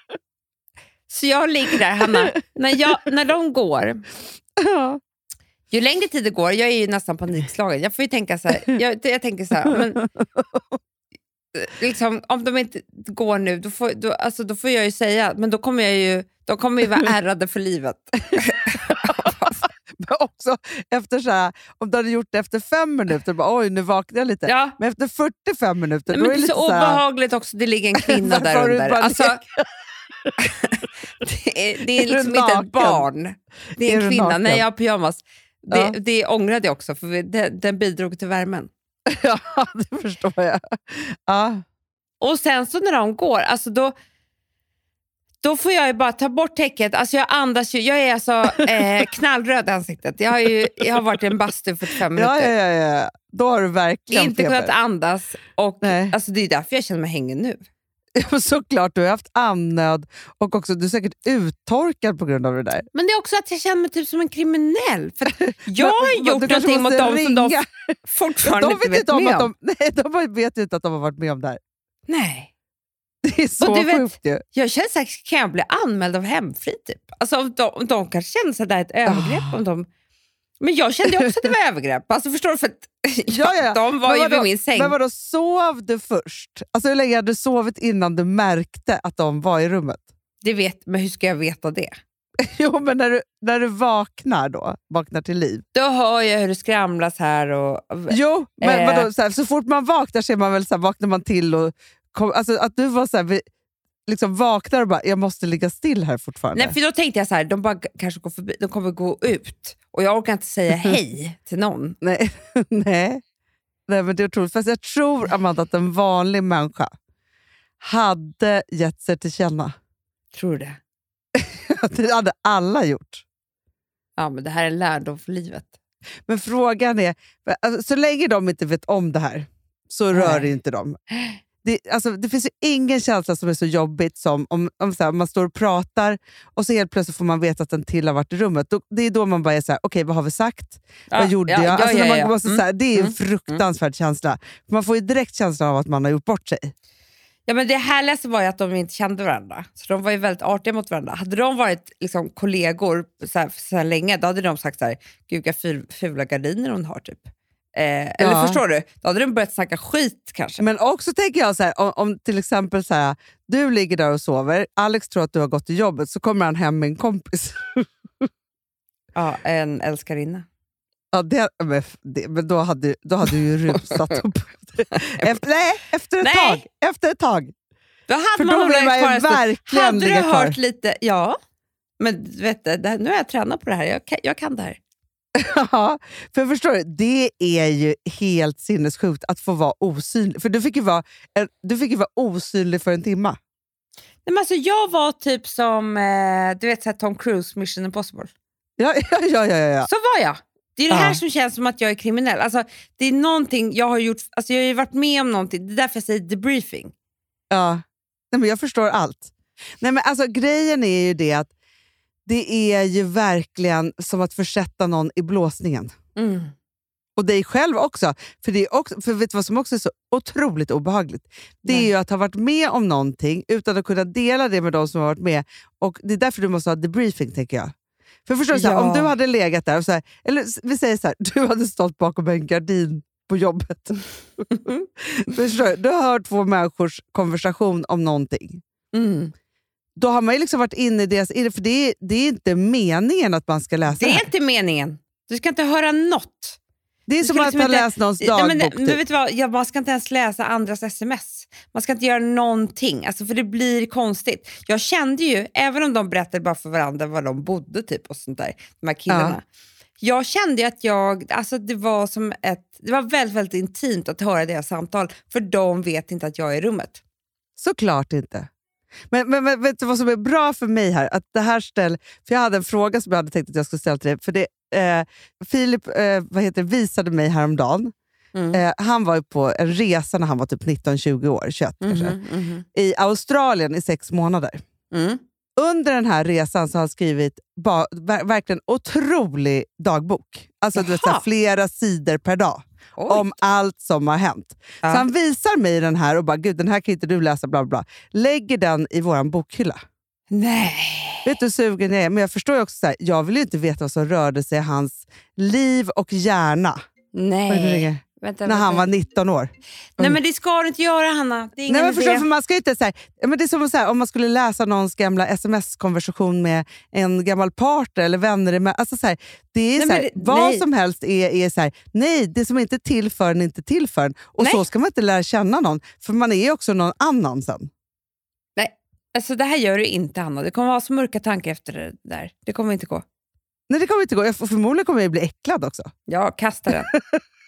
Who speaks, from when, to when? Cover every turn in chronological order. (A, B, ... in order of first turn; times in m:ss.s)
0:01.1-0:04.0 A
0:04.6-0:05.0 B
0:05.7-0:10.0 A
0:09.7-0:10.8 B
0:11.6-0:19.6 A
0:20.0-0:27.0 B
0:24.4-0:24.8 A
0:26.1-0:29.4 A
0:28.0-0:29.6 B
0:30.4-0:38.7 A
0:32.0-0:33.0 B
0:33.8-0:34.6 B
0:39.1-0:41.6 B
0:42.2-0:43.9 A
0:45.4-0:52.5 A
0:48.6-0:49.0 B
0:52.1-0:54.7 B
0:54.1-0:57.6 A
0:55.8-0:56.1 B
0:58.2-1:02.9 B
1:02.9-1:09.5 A
1:05.4-1:11.6 B
1:12.1-1:12.5 A
1:13.2-1:14.4 B
1:13.6-1:19.9 A
1:19.1-1:19.5 B
1:20.6-1:25.0 A
1:23.3-1:30.0 B
1:30.4-1:31.9 A
1:32.5-1:35.6 B
1:35.7-1:39.1 A
1:38.1-1:43.4 B
1:44.1-1:46.7 B
1:46.5-1:52.0 A
1:52.0-1:53.2 B
1:53.9-1:56.9 B
1:57.8-1:59.7 B
2:00.3-2:00.8 A
2:01.4-2:03.2 B
2:04.2-2:05.7 A
2:06.3-2:11.0 B
2:10.1-2:10.4 A
2:11.6-2:26.7 B
2:21.1-2:23.6 A
2:27.5-2:40.6 A
2:38.2-2:38.6 B
2:40.6-2:47.9 B
2:49.2-2:50.4 A
2:51.1-2:57.5 B
2:53.7-2:54.2 A
2:56.2-2:56.6 A
2:58.1-3:01.4 A
2:58.4-3:00.6 B
3:02.0-3:04.8 A
3:05.4-3:13.4 B
3:14.3-3:18.3 A
3:18.8-3:19.9 B
3:19.8-3:26.9 A
3:20.9-3:21.2 B
3:27.5-3:31.5 B
3:32.3-3:35.9 B
3:36.2-3:36.5 A
3:37.2-3:47.7 B
3:48.3-3:58.6 B
3:48.5-3:49.1 A
3:54.6-3:54.8 A
3:58.9-3:59.3 A
4:00.0-4:04.2 B
4:03.9-4:06.6 A
4:07.1-4:09.0 B
4:07.2-4:19.4 A
4:19.1-4:19.4 B
4:20.0-4:27.0 A
4:27.6-4:28.5 B
4:29.1-4:37.9 B
4:38.3-4:38.6 A
4:38.5-4:42.2 B
4:41.8-4:42.6 A
4:42.7-4:44.6 B
4:44.9-4:45.2 A
4:45.6-4:59.8 B
4:50.7-4:51.2 A
4:53.0-4:53.4 A
5:00.3-5:01.3 A
5:01.2-5:06.8 B
5:07.1-5:08.9 A
5:07.5-5:10.2 B
5:10.0-5:12.3 A
5:11.7-5:27.7 B
5:19.8-5:20.6 A
5:28.6-5:33.0 A
5:33.7-5:35.9 B
5:36.1-5:36.9 A
5:36.9-5:37.2 B